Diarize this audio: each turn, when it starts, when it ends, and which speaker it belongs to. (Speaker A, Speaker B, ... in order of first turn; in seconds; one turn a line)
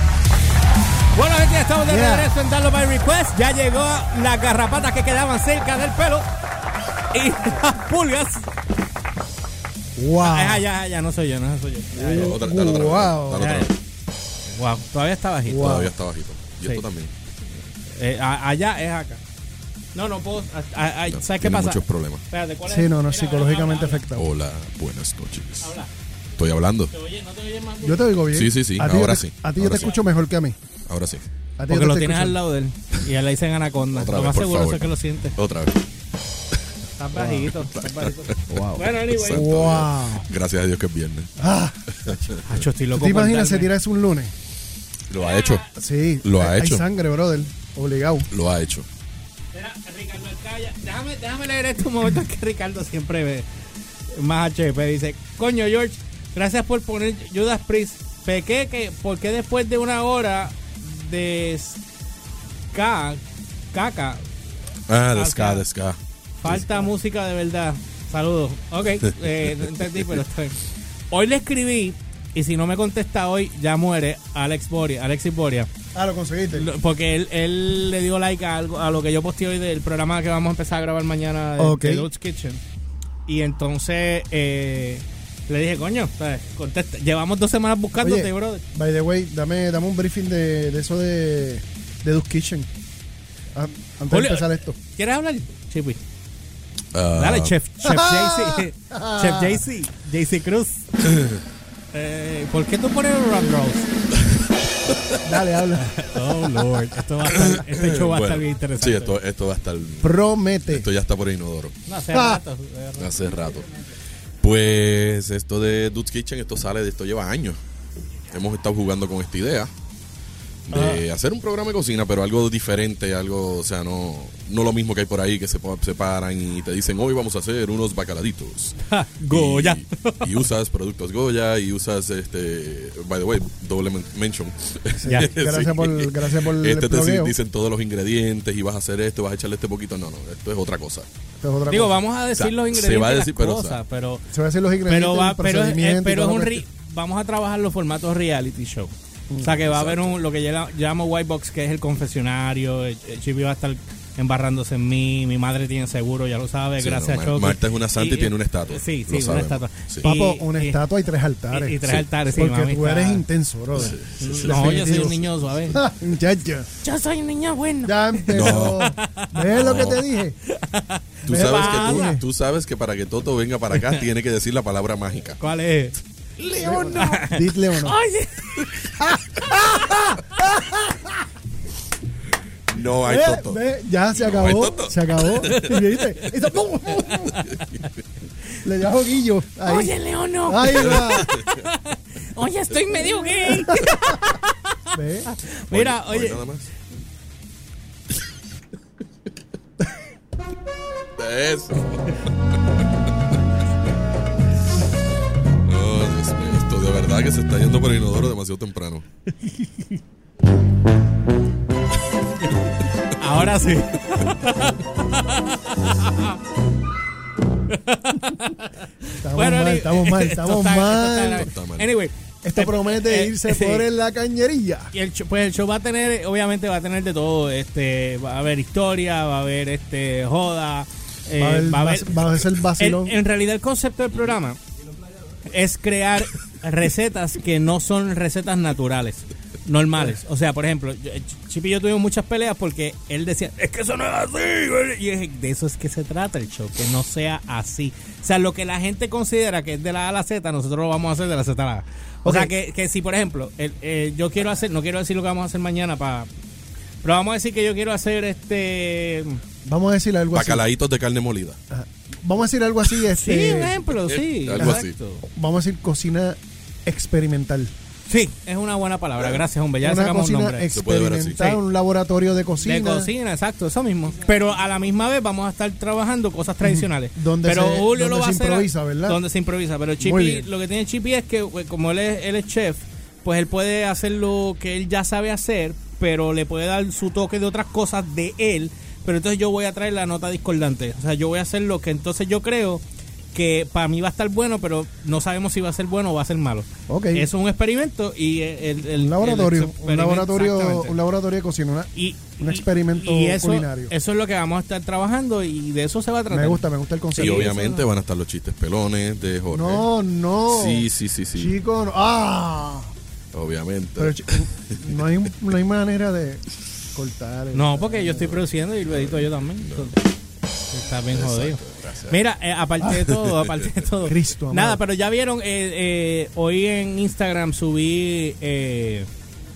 Speaker A: 1.1-6.2
Speaker B: 1.8-2.3
Speaker A: 7.1-8.5
Speaker B: 9.9-10.6
Speaker A: 10.2-12.3
Speaker B: 11.9-13.6
Speaker C: 12.1-13.7
Speaker A: 13.4-13.7
Speaker A: 14.5-15.8
Speaker B: 15.5-15.9
Speaker C: 15.5-17.1
Speaker A: 17.9-19.2
Speaker A: 19.9-24.0
Speaker C: 21.1-22.2
Speaker B: 22.7-24.3
Speaker C: 24.1-25.7
Speaker A: 25.6-25.9
Speaker C: 26.4-26.9
Speaker A: 26.9-28.1
Speaker B: 27.8-30.6
Speaker C: 28.3-29.9
Speaker C: 30.9-31.2
Speaker B: 31.6-32.4
Speaker A: 31.7-35.4
Speaker C: 33.9-35.8
Speaker A: 37.0-39.5
Speaker B: 37.1-37.5
Speaker C: 37.8-41.3
Speaker B: 39.3-40.2
Speaker B: 41.4-42.2
Speaker C: 42.1-42.4
Speaker A: 42.4-43.7
Speaker B: 42.9-44.3
Speaker C: 45.1-45.6
Speaker A: 45.2-45.7
Speaker B: 45.7-48.3
Speaker C: 46.2-46.8
Speaker C: 48.3-48.9
Speaker A: 49.5-53.4
Speaker A: 54.1-61.8
Speaker A: 62.7-63.2
Speaker A: 63.7-64.2
Speaker C: 64.9-66.6
Speaker A: 65.1-65.6
Speaker A: 66.4-70.6
Speaker A: 71.1-75.7
Speaker B: 75.9-76.7
Speaker A: 76.5-82.6
Speaker B: 81.6-82.1
Speaker A: 83.3-88.6
Speaker B: 88.0-92.7
Speaker B: 93.5-94.8
Speaker A: 94.1-96.0
Speaker C: 96.9-97.5
Speaker A: 97.1-100.9
Speaker B: 97.8-99.6
Speaker C: 101.0-101.4
Speaker A: 101.9-103.9
Speaker B: 105.2-106.0
Speaker A: 105.8-109.1
Speaker C: 107.3-110.1
Speaker B: 110.0-110.8
Speaker C: 110.7-111.8
Speaker A: 111.9-113.1
Speaker B: 112.1-112.4
Speaker C: 113.0-113.7
Speaker C: 114.4-117.6
Speaker C: 118.3-119.7
Speaker C: 120.7-141.1
Speaker B: 120.7-121.0
Speaker A: 128.8-130.2
Speaker B: 135.0-137.3
Speaker A: 135.1-135.3
Speaker B: 141.4-142.0
Speaker A: 141.7-144.2
Speaker C: 142.3-143.8
Speaker B: 144.3-146.6
Speaker A: 144.9-160.8
Speaker B: 149.3-149.5
Speaker C: 149.6-150.1
Speaker C: 156.8-160.0
Speaker B: 160.0-166.7
Speaker A: 161.5-163.2
Speaker C: 163.8-165.1
Speaker A: 164.2-165.8
Speaker A: 166.8-169.6
Speaker B: 167.8-170.4
Speaker C: 168.3-168.9
Speaker C: 169.5-170.0
Speaker A: 170.4-172.1
Speaker C: 171.2-175.4
Speaker B: 171.3-172.2
Speaker A: 173.7-174.0
Speaker A: 175.4-180.1
Speaker B: 176.5-178.0
Speaker B: 179.0-181.2
Speaker C: 182.7-183.6
Speaker B: 183.0-187.4
Speaker C: 184.2-185.7
Speaker A: 187.3-187.7
Speaker C: 187.5-187.8
Speaker B: 188.6-189.9
Speaker A: 189.6-196.4
Speaker B: 190.4-191.3
Speaker B: 193.5-194.1
Speaker B: 194.9-195.3
Speaker C: 195.7-196.7
Speaker C: 201.2-202.2
Speaker C: 205.6-209.0
Speaker A: 213.1-216.4
Speaker A: 217.7-223.9
Speaker B: 219.2-221.5
Speaker C: 221.4-221.8
Speaker B: 222.4-224.9
Speaker A: 224.9-234.6
Speaker B: 231.4-233.2
Speaker A: 235.4-256.3
Speaker B: 252.2-252.5
Speaker A: 257.0-259.4
Speaker B: 259.6-260.6
Speaker C: 260.3-261.6
Speaker B: 261.7-263.8
Speaker A: 263.1-265.2
Speaker C: 264.0-264.9
Speaker B: 264.6-267.7
Speaker A: 268.1-270.7
Speaker B: 269.8-273.1
Speaker C: 270.7-271.6
Speaker A: 272.6-292.8
Speaker B: 276.6-279.2
Speaker B: 280.0-280.5
Speaker A: 293.3-300.9
Speaker B: 296.9-297.3
Speaker B: 298.9-303.9
Speaker A: 301.9-306.6
Speaker B: 306.3-307.5
Speaker A: 307.1-307.8
Speaker C: 307.2-309.9
Speaker B: 309.5-312.9
Speaker C: 310.5-311.5
Speaker C: 313.3-314.8
Speaker B: 314.0-318.4
Speaker A: 317.5-320.0
Speaker C: 318.9-319.9
Speaker A: 320.7-329.1
Speaker C: 321.1-322.1
Speaker C: 323.2-323.5
Speaker B: 324.0-324.8